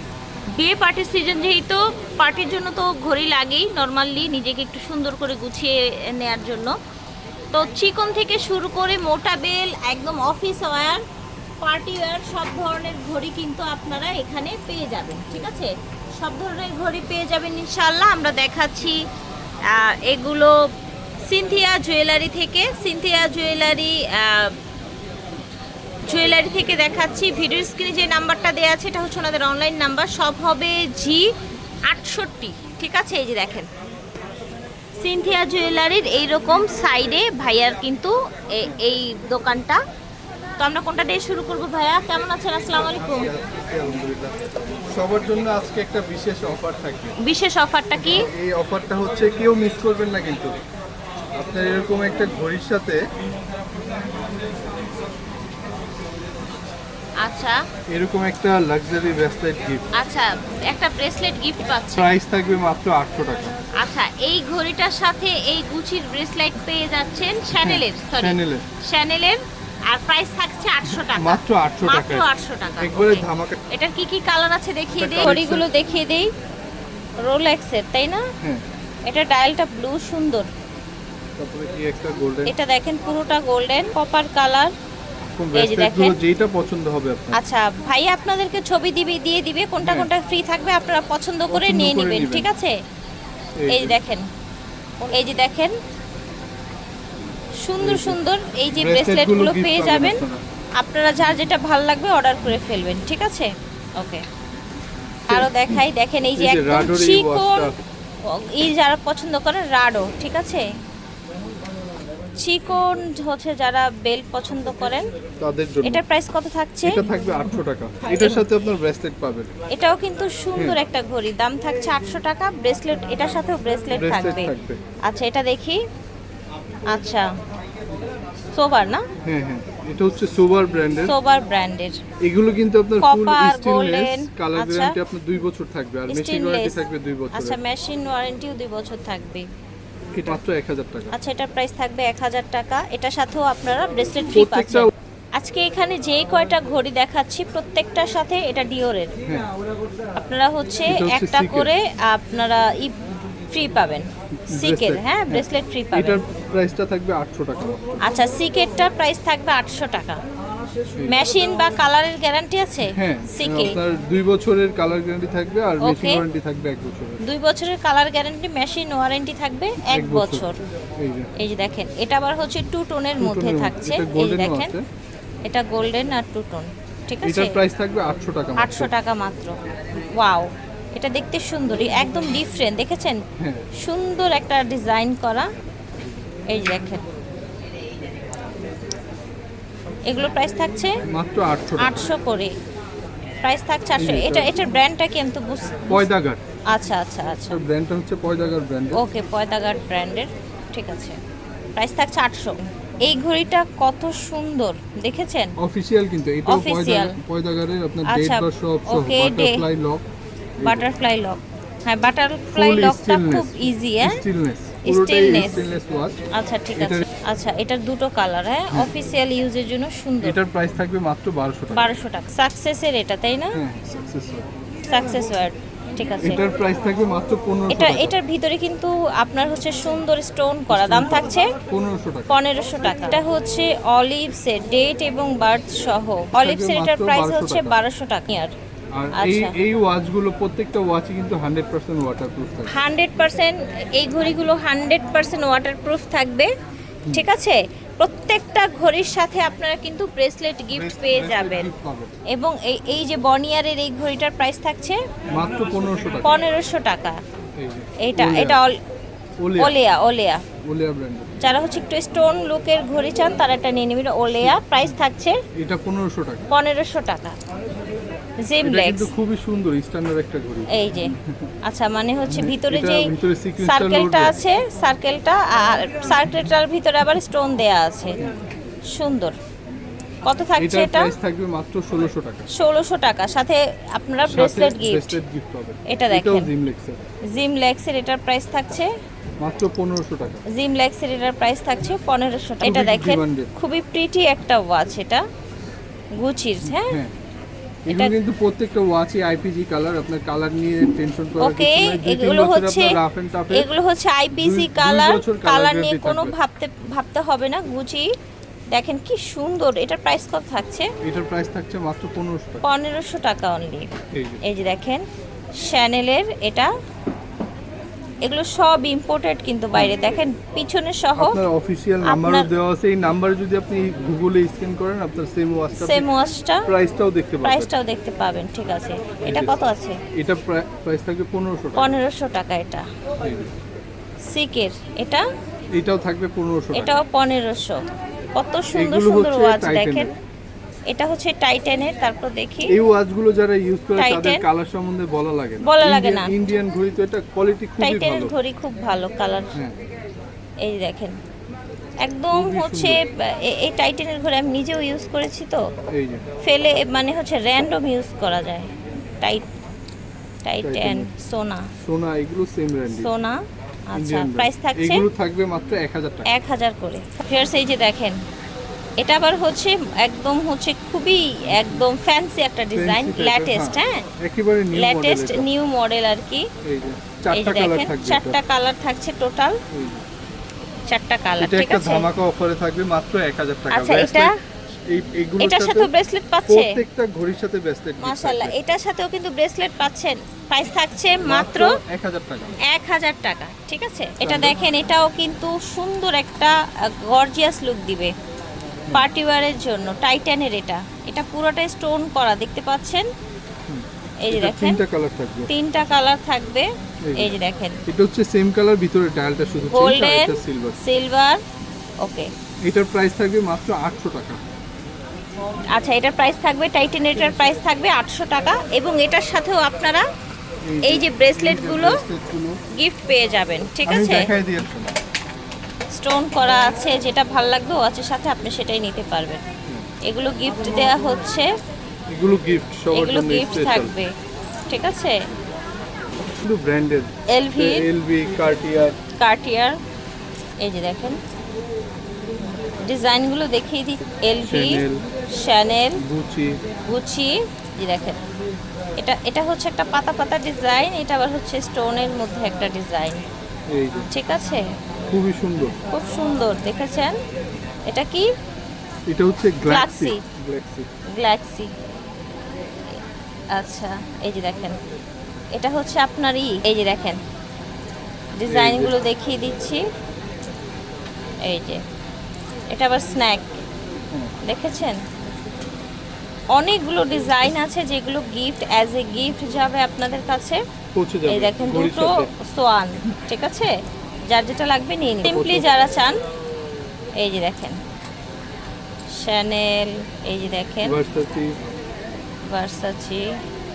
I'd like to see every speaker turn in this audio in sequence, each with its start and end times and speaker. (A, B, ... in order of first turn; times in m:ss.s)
0:00.6-0:06.8 A
0:07.5-0:11.0 A
0:11.6-0:19.0 A
0:19.7-0:20.6 A
0:21.3-0:24.6 A
0:26.1-0:31.3 A
0:31.9-0:33.7 A
0:35.0-0:39.8 A
0:40.6-0:43.3 A
0:42.9-0:47.2 B
0:47.2-0:48.3 A
0:48.0-0:50.5 B
0:51.4-0:53.0 B
0:57.2-0:57.6 A
0:57.9-0:59.8 B
1:00.0-1:02.1 A
1:02.0-1:03.6 B
1:03.8-1:16.3 A
1:07.6-1:08.7 B
1:10.9-1:12.3 B
1:12.8-1:13.6 B
1:15.0-1:15.7 B
1:17.3-1:18.2 A
1:19.1-1:20.5 A
1:21.4-1:22.5 B
1:22.5-1:24.7 A
1:25.2-1:27.4 B
1:25.5-1:26.2 A
1:27.3-1:32.7 A
1:29.8-1:30.1 B
1:31.5-1:32.5 B
1:33.6-1:34.0 B
1:33.7-1:34.3 A
1:35.0-1:35.7 A
1:37.6-1:40.2 A
1:37.8-1:38.2 B
1:38.7-1:40.4 B
1:40.8-1:44.2 A
1:45.3-1:47.7 A
1:45.3-1:45.8 B
1:46.4-1:47.8 B
1:48.3-1:50.7 A
1:52.4-1:55.1 A
1:55.4-1:56.0 B
1:55.8-1:57.0 A
1:56.8-1:59.5 B
1:58.1-1:58.4 A
1:59.7-2:04.5 A
2:03.9-2:04.8 B
2:05.1-2:05.8 A
2:06.9-2:07.3 A
2:08.5-2:09.0 A
2:09.2-2:11.2 B
2:11.0-2:12.0 A
2:12.2-2:17.6 B
2:13.0-2:15.0 A
2:16.1-2:19.5 A
2:20.1-2:21.1 B
2:21.1-2:29.2 A
2:24.3-2:24.9 B
2:30.2-2:33.0 A
2:30.9-2:31.7 B
2:33.5-2:36.2 A
2:34.5-2:38.0 B
2:38.0-2:40.2 A
2:41.1-2:43.8 A
2:42.9-2:47.2 B
2:45.8-2:46.2 A
2:47.2-2:50.6 A
2:49.8-2:50.5 B
2:51.0-2:51.3 B
2:51.4-2:54.8 A
2:53.2-2:54.8 B
2:55.4-2:57.6 A
2:57.2-2:58.9 B
2:58.6-2:59.6 A
3:00.2-3:03.2 A
3:03.4-3:03.7 B
3:03.8-3:05.5 A
3:06.5-3:07.0 A
3:10.1-3:10.9 A
3:11.1-3:12.1 B
3:11.8-3:12.5 A
3:13.4-3:16.0 A
3:14.0-3:14.6 B
3:15.9-3:16.4 B
3:16.7-3:17.6 A
3:17.5-3:19.0 B
3:18.9-3:21.2 A
3:21.8-3:25.5 A
3:25.6-3:30.0 B
3:26.5-3:27.2 A
3:28.1-3:29.6 A
3:30.6-3:30.9 B
3:30.6-3:34.2 A
3:32.5-3:36.2 B
3:34.8-3:35.7 A
3:36.3-3:40.4 A
3:36.8-3:37.1 B
3:40.2-3:42.0 B
3:41.7-3:43.6 A
3:43.5-3:44.5 B
3:44.9-3:46.4 A
3:46.2-3:48.2 B
3:47.7-3:51.5 A
3:50.7-3:52.4 B
3:52.3-3:58.5 A
3:56.3-3:57.8 B
3:59.0-4:02.8 B
3:59.2-3:59.5 A
4:02.7-4:06.5 A
4:07.1-4:11.7 A
4:10.7-4:12.1 B
4:12.3-4:15.0 A
4:15.3-4:16.3 B
4:16.2-4:17.2 A
4:17.6-4:18.6 B
4:18.0-4:18.8 A
4:19.4-4:19.8 B
4:19.6-4:20.4 A
4:20.6-4:21.3 B
4:21.4-4:25.4 A
4:24.4-4:25.0 B
4:25.6-4:26.5 B
4:26.5-4:27.4 A
4:28.4-4:29.1 A
4:28.6-4:31.5 B
4:30.7-4:31.1 A
4:31.6-4:33.1 A
4:32.3-4:34.4 B
4:33.6-4:38.2 A
4:38.9-4:39.4 A
4:40.2-4:41.1 A
4:40.6-4:42.5 B
4:42.5-4:45.2 A
4:44.3-4:47.0 B
4:45.9-4:46.5 A
4:47.3-4:48.9 A
4:49.4-4:50.4 B
4:50.5-4:55.2 A
4:52.6-4:53.5 B
4:56.2-4:57.0 A
4:56.6-4:57.2 B
4:57.9-5:03.7 B
5:01.4-5:03.0 A
5:03.5-5:08.1 A
5:04.3-5:06.4 B
5:08.7-5:10.9 A
5:11.0-5:12.7 B
5:12.6-5:13.9 A
5:14.1-5:14.4 B
5:14.4-5:15.0 A
5:15.6-5:16.7 A
5:18.2-5:21.4 A
5:19.7-5:20.0 B
5:21.2-5:26.1 B
5:22.1-5:22.5 A
5:25.8-5:26.7 A
5:26.7-5:27.7 B
5:27.4-5:30.0 A
5:29.3-5:31.9 B
5:31.8-5:32.9 A
5:33.2-5:33.5 B
5:34.3-5:35.2 A
5:35.7-5:37.0 B
5:36.8-5:37.8 A
5:38.4-5:40.1 A
5:38.7-5:40.1 B
5:40.9-5:42.7 A
5:42.7-5:48.3 B
5:44.0-5:44.4 A
5:45.6-5:46.3 A
5:47.8-5:49.6 A
5:50.6-5:51.2 A
5:52.0-5:55.6 A
5:52.3-5:53.0 B
5:55.9-5:56.2 B
5:56.4-5:59.5 A
6:00.4-6:01.7 A
6:00.6-6:01.1 B
6:01.8-6:03.1 B
6:02.9-6:05.0 A
6:04.0-6:06.3 B
6:06.3-6:08.2 A
6:09.0-6:14.0 A
6:11.5-6:11.9 B
6:12.8-6:15.5 B
6:14.7-6:16.5 A
6:16.6-6:18.4 B
6:17.3-6:19.6 A
6:19.7-6:20.0 B
6:20.9-6:22.1 A
6:21.4-6:24.3 B
6:23.7-6:24.3 A
6:24.9-6:25.9 B
6:25.4-6:26.8 A
6:26.5-6:28.6 B
6:28.0-6:31.7 A
6:31.2-6:32.6 B
6:32.6-6:38.1 A
6:34.2-6:34.6 B
6:38.9-6:43.1 A
6:43.7-6:45.5 B
6:44.2-6:44.8 A
6:45.5-6:47.8 A
6:47.0-6:47.4 B
6:47.9-6:50.8 B
6:49.7-6:51.4 A
6:52.0-6:52.3 A
6:52.6-6:54.4 B
6:55.7-7:00.0 A
7:00.7-7:02.6 B
7:00.9-7:02.0 A
7:02.8-7:04.3 A
7:03.8-7:04.9 B
7:06.0-7:09.4 A
7:10.1-7:11.5 A
7:12.1-7:14.0 B
7:12.9-7:14.1 A
7:14.7-7:15.2 A
7:16.4-7:19.0 B
7:17.3-7:17.8 A
7:19.2-7:19.8 A
7:20.6-7:21.2 A
7:22.9-7:26.0 A
7:24.4-7:25.1 B
7:26.0-7:26.6 B
7:26.9-7:28.2 A
7:29.0-7:33.2 A
7:33.7-7:34.1 B
7:34.1-7:34.6 A
7:35.1-7:35.7 B
7:35.9-7:37.2 A
7:37.9-7:38.3 A
7:39.1-7:40.9 B
7:39.6-7:40.2 A
7:41.1-7:41.7 A
7:43.5-7:44.8 A
7:45.6-7:47.2 A
7:48.4-7:49.8 A
7:48.5-7:49.0 B
7:51.4-7:51.8 A
7:52.7-7:53.6 A
7:54.4-7:55.0 A
7:56.5-8:00.6 A
8:01.0-8:02.3 B
8:01.3-8:03.7 A
8:04.3-8:06.2 A
8:05.2-8:05.7 B
8:07.2-8:07.8 A
8:09.2-8:11.0 A
8:10.8-8:11.5 B
8:12.4-8:13.2 A